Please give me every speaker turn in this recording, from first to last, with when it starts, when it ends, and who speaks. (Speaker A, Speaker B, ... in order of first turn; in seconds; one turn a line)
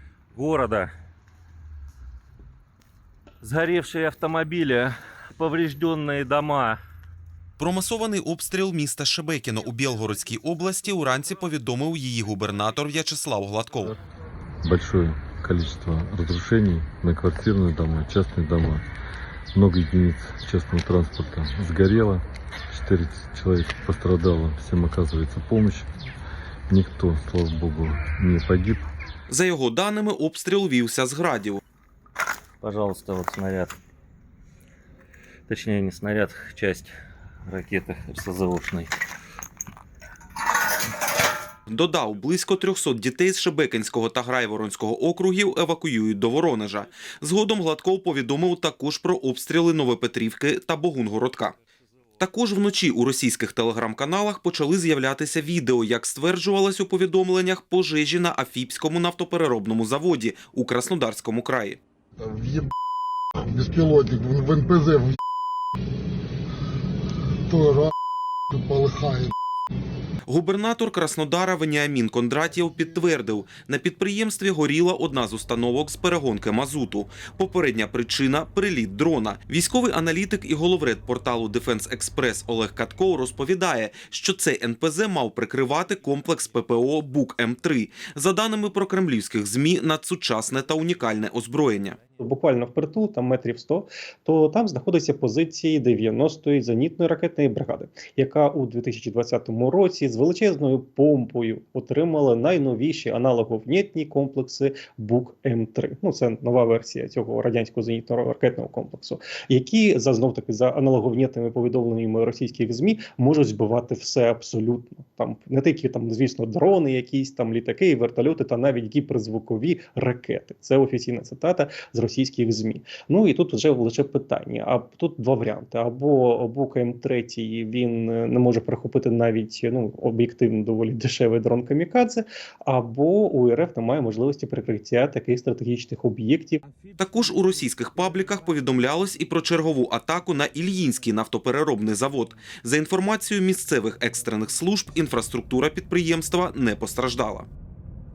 Speaker A: 0.3-0.9
Speaker A: 3.4-6.8
Speaker B: 7.6-14.0
Speaker C: 14.6-18.8
Speaker C: 19.5-25.9
Speaker C: 26.7-28.8
Speaker B: 29.3-31.6
Speaker A: 32.6-33.8
Speaker A: 35.5-36.9
Speaker A: 37.5-38.9
Speaker B: 41.7-51.5
Speaker B: 52.2-61.8
Speaker D: 62.2-62.6
Speaker D: 63.5-65.1
Speaker D: 67.5-67.8
Speaker D: 68.5-69.3
Speaker B: 70.3-92.0
Speaker E: 92.2-136.6
Speaker B: 137.0-147.5